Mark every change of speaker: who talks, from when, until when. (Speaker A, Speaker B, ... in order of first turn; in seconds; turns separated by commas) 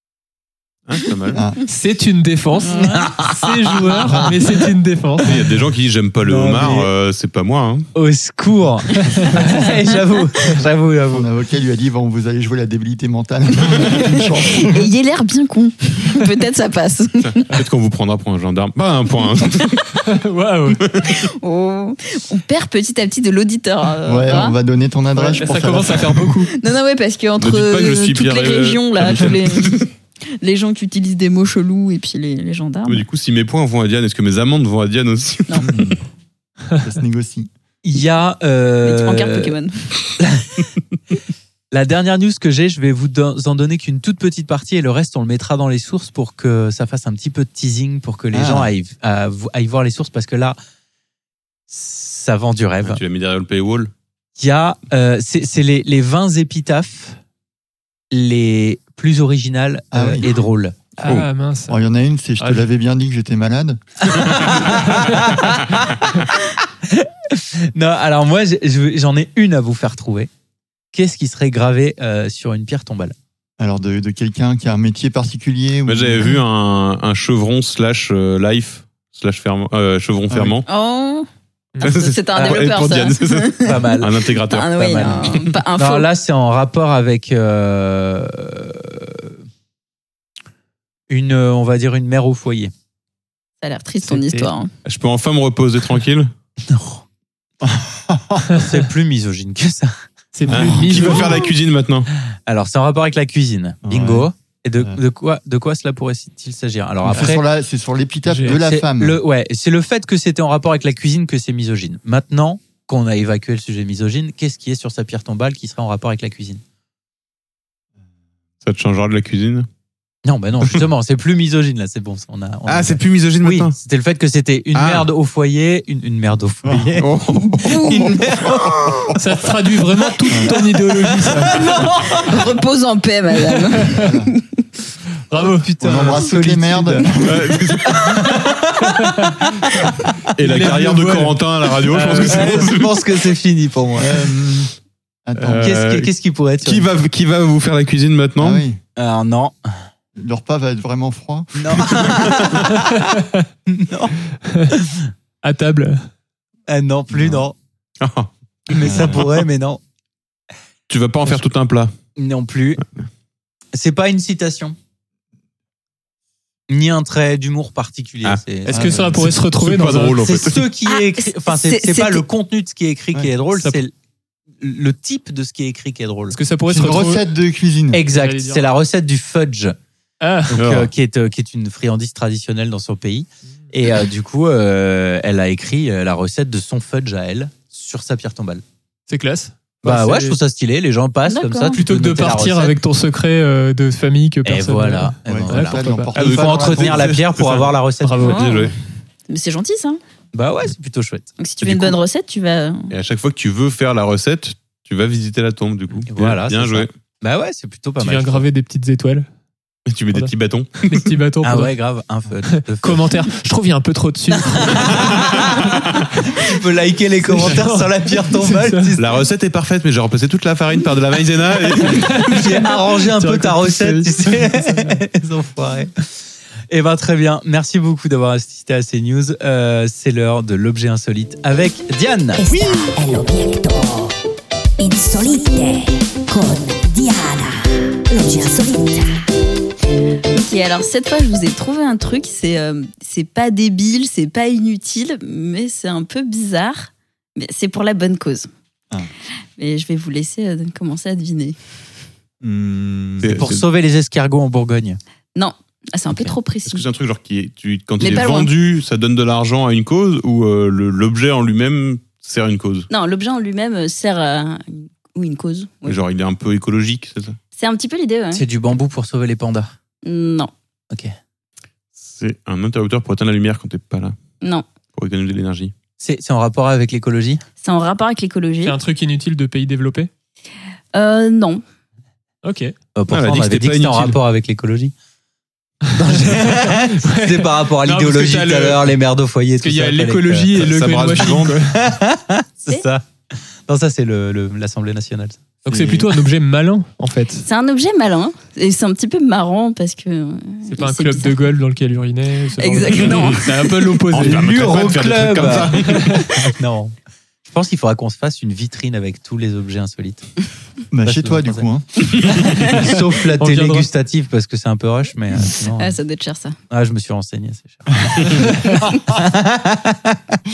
Speaker A: 0.9-1.4, Speaker B: 1.3-1.6, Speaker C: 1.7-5.5, Speaker D: 2.7-4.2, Speaker A: 5.2-7.9, Speaker D: 6.2-6.9, Speaker D: 7.9-11.2, Speaker B: 11.1-14.9, Speaker E: 13.8-17.5, Speaker A: 17.4-20.0, Speaker C: 20.0-20.8, Speaker A: 20.9-21.2, Speaker E: 21.1-24.6, Speaker B: 24.1-26.4, Speaker C: 25.3-26.5, Speaker E: 26.5-29.8, Speaker A: 27.4-29.9, Speaker E: 30.4-33.0, Speaker A: 32.9-36.0, Speaker B: 35.6-36.0, Speaker B: 36.8-37.5, Speaker D: 37.8-39.5, Speaker E: 38.8-39.9, Speaker D: 40.2-40.6, Speaker D: 41.7-50.5, Speaker B: 48.3-48.7, Speaker D: 51.7-53.0, Speaker A: 52.8-53.9, Speaker D: 54.4-57.2, Speaker D: 58.1-60.8, Speaker B: 59.9-60.3, Speaker C: 61.0-61.8, Speaker B: 61.7-64.7, Speaker C: 62.4-62.6, Speaker D: 64.1-70.3, Speaker D: 70.9-73.1, Speaker B: 73.6-76.4, Speaker A: 75.8-80.7, Speaker B: 80.3-80.6, Speaker E: 80.7-81.3, Speaker A: 81.8-85.6, Speaker E: 81.8-86.1, Speaker D: 82.3-82.6, Speaker D: 83.6-84.1, Speaker D: 84.7-89.3, Speaker D: 91.1-92.7, Speaker E: 93.6-94.7, Speaker D: 94.0-94.5, Speaker A: 94.8-96.3, Speaker D: 96.7-97.0, Speaker B: 97.6-98.6, Speaker D: 98.5-101.2, Speaker C: 100.3-101.5, Speaker A: 100.5-102.1, Speaker D: 102.5-107.4, Speaker B: 103.8-105.0, Speaker B: 107.0-109.2, Speaker C: 108.3-108.6, Speaker D: 108.5-116.6, Speaker A: 118.6-119.7, Speaker D: 120.2-129.0, Speaker A: 122.7-123.7, Speaker A: 124.7-125.1, Speaker B: 126.6-126.9, Speaker A: 127.0-129.2, Speaker E: 127.6-128.2, Speaker C: 129.1-131.7, Speaker D: 131.0-132.3, Speaker E: 132.1-134.4, Speaker C: 133.8-134.1, Speaker B: 133.8-134.3, Speaker C: 135.3-135.7, Speaker D: 135.4-137.2, Speaker B: 135.8-137.7, Speaker A: 137.2-138.2, Speaker D: 137.9-139.1, Speaker C: 138.8-139.5, Speaker C: 140.3-142.7, Speaker A: 140.4-143.1, Speaker D: 142.2-144.1, Speaker B: 143.9-144.7, Speaker B: 145.2-145.8, Speaker A: 145.4-146.1, Speaker D: 145.5-146.9, Speaker A: 146.6-148.6, Speaker B: 148.4-148.8, Speaker D: 148.9-149.7, Speaker B: 150.2-152.4, Speaker D: 151.6-153.0, Speaker C: 152.9-153.4, Speaker D: 153.7-154.2, Speaker C: 154.4-154.7, Speaker D: 154.7-155.1, Speaker C: 155.4-156.1, Speaker D: 156.7-157.5, Speaker B: 157.1-157.4, Speaker A: 158.0-159.4, Speaker D: 158.7-159.8, Speaker B: 158.8-159.2, Speaker A: 160.9-161.9, Speaker D: 162.2-162.8, Speaker D: 163.7-164.8, Speaker D: 166.7-169.2, Speaker C: 168.7-170.2, Speaker B: 168.7-169.3, Speaker A: 169.2-170.7, Speaker D: 170.2-173.9, Speaker E: 170.9-172.2, Speaker D: 174.6-176.4, Speaker C: 176.3-177.2, Speaker B: 176.7-178.0, Speaker D: 177.9-179.8, Speaker C: 178.1-178.7, Speaker C: 180.2-180.6, Speaker D: 180.5-188.6, Speaker A: 180.6-180.9, Speaker C: 189.1-190.4, Speaker D: 189.8-192.8, Speaker E: 191.3-191.8, Speaker C: 191.7-196.1, Speaker D: 194.4-198.2, Speaker B: 195.2-197.2, Speaker A: 196.2-198.7, Speaker C: 198.0-198.5, Speaker E: 198.2-198.7, Speaker E: 199.3-200.0, Speaker D: 200.3-201.3, Speaker E: 201.4-202.9, Speaker A: 201.6-201.9, Speaker A: 202.9-206.9, Speaker D: 206.1-208.4, Speaker C: 208.0-209.3, Speaker A: 209.8-211.1, Speaker C: 210.8-211.7, Speaker D: 211.4-213.2, Speaker C: 212.5-215.1, Speaker D: 214.3-219.2, Speaker C: 217.3-218.9, Speaker A: 219.0-222.6, Speaker C: 221.9-225.0, Speaker D: 222.2-226.1, Speaker D: 226.7-232.4, Speaker F: 232.4-234.1, Speaker F: 234.8-239.2, Speaker E: 240.3-248.5, Speaker E: 249.6-251.6, Speaker B: 252.4-253.5, Speaker A: 253.2-253.6, Speaker D: 253.3-255.0, Speaker E: 255.3-256.8, Speaker A: 256.7-262.9, Speaker E: 258.0-258.5, Speaker E: 262.9-266.0, Speaker A: 265.9-267.4, Speaker E: 267.6-268.4, Speaker D: 268.3-269.7, Speaker E: 270.0-270.5, Speaker A: 272.0-274.2, Speaker A: 274.9-275.7, Speaker D: 276.0-277.4, Speaker E: 277.6-278.8, Speaker C: 278.6-280.1, Speaker E: 280.9-281.6, Speaker C: 282.4-282.7, Speaker D: 282.9-284.9, Speaker A: 283.1-284.2, Speaker D: 285.9-290.6, Speaker C: 286.2-288.9, Speaker C: 289.6-291.8, Speaker A: 290.5-291.6, Speaker D: 291.7-293.1, Speaker D: 293.7-295.7, Speaker C: 295.6-297.4, Speaker B: 295.7-296.0, Speaker E: 297.4-301.5, Speaker C: 300.7-304.9, Speaker E: 302.6-303.9, Speaker A: 303.0-306.2, Speaker D: 304.1-306.9, Speaker C: 305.7-306.3, Speaker D: 307.4-310.3, Speaker B: 310.9-312.5, Speaker D: 311.0-311.7, Speaker D: 312.2-316.0, Speaker C: 313.4-313.9, Speaker E: 315.5-316.6, Speaker D: 316.7-320.4, Speaker A: 318.2-318.5